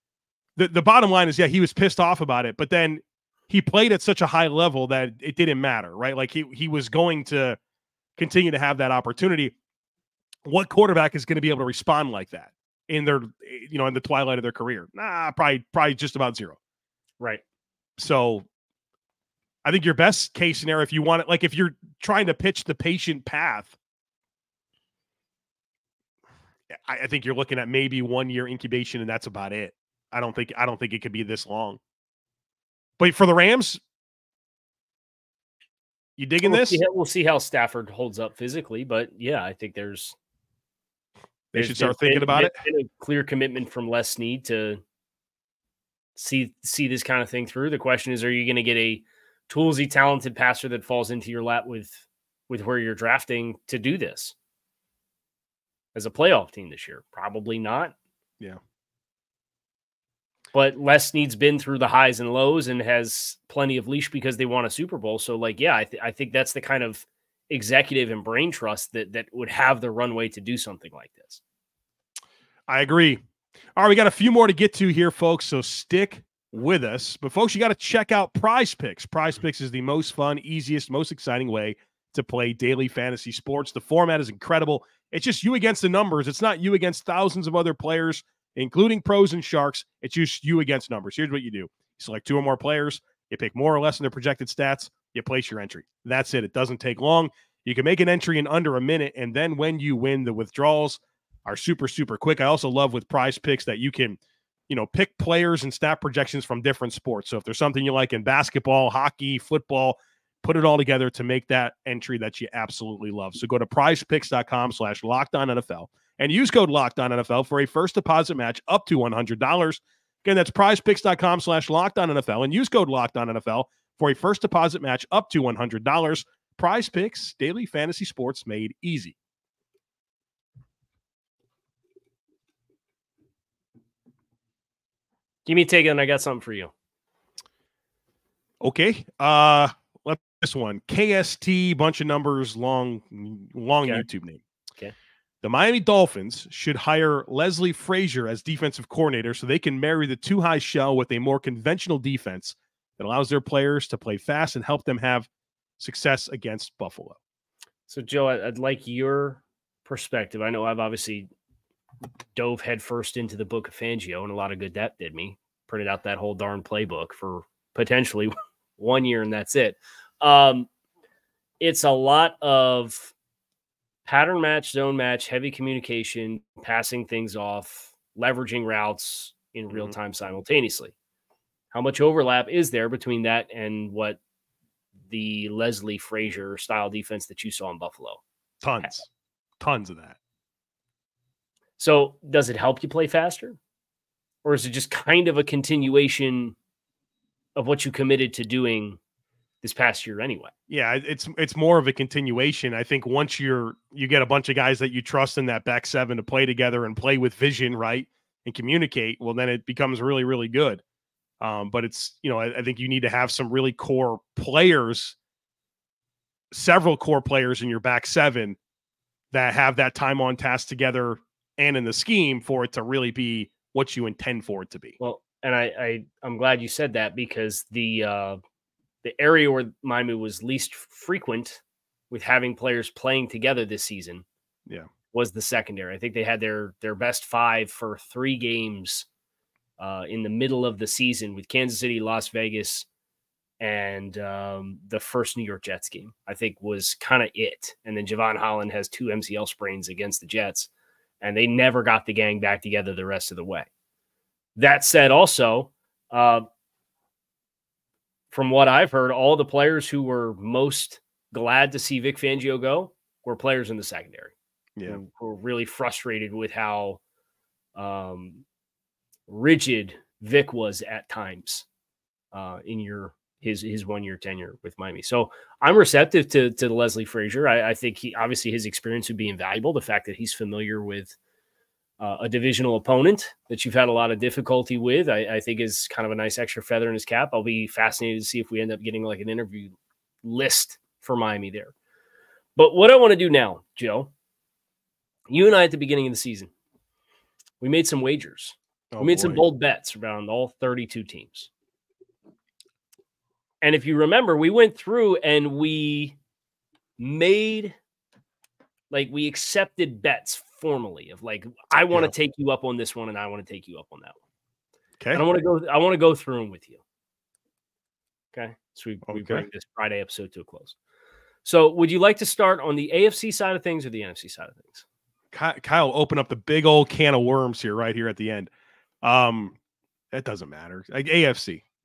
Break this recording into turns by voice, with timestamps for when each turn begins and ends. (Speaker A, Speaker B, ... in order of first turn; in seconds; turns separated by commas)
Speaker A: 0.6-7.6, Speaker A: 8.2-9.5, Speaker A: 10.4-16.6, Speaker A: 18.0-18.4, Speaker A: 19.6-23.7, Speaker A: 26.7-31.8, Speaker A: 33.0-33.8, Speaker A: 36.2-36.8, Speaker B: 36.4-40.2, Speaker A: 41.5-42.6, Speaker B: 41.5-44.8, Speaker B: 46.2-54.4, Speaker B: 55.9-57.9, Speaker B: 60.5-71.4, Speaker A: 72.7-73.2, Speaker A: 73.8-104.2, Speaker A: 104.7-129.2, Speaker B: 135.5-136.7, Speaker A: 138.6-144.4, Speaker A: 145.4-155.3, Speaker A: 155.8-157.2, Speaker B: 157.9-161.3, Speaker B: 162.3-170.7, Speaker B: 171.6-173.1, Speaker B: 174.1-180.9, Speaker B: 181.7-184.2, Speaker B: 185.1-188.2, Speaker A: 188.6-189.1, Speaker A: 189.6-190.2, Speaker B: 191.8-193.6, Speaker B: 194.4-196.6, Speaker B: 197.6-199.0, Speaker B: 199.6-200.5, Speaker A: 200.7-210.8, Speaker A: 211.4-215.2, Speaker A: 216.5-218.6, Speaker A: 219.3-225.0, Speaker B: 225.0-228.4, Speaker B: 229.0-234.2, Speaker B: 235.1-239.1, Speaker B: 239.8-242.9, Speaker B: 243.6-250.7, Speaker B: 251.2-253.7, Speaker B: 254.6-256.5, Speaker B: 258.3-264.3, Speaker B: 264.9-267.0, Speaker B: 267.8-268.4, Speaker B: 269.3-271.7, Speaker B: 272.3-281.1, Speaker B: 282.0-291.7, Speaker B: 292.6-294.1, Speaker B: 295.3-296.5, Speaker B: 297.6-301.5, Speaker A: 298.9-299.4, Speaker B: 303.6-306.2, Speaker B: 307.0-307.8, Speaker B: 308.9-314.2, Speaker B: 315.1-316.8, Speaker B: 318.3-320.8, Speaker A: 319.1-319.5, Speaker B: 321.4-324.8, Speaker A: 325.3-328.5, Speaker A: 329.0-329.6, Speaker A: 330.1-331.6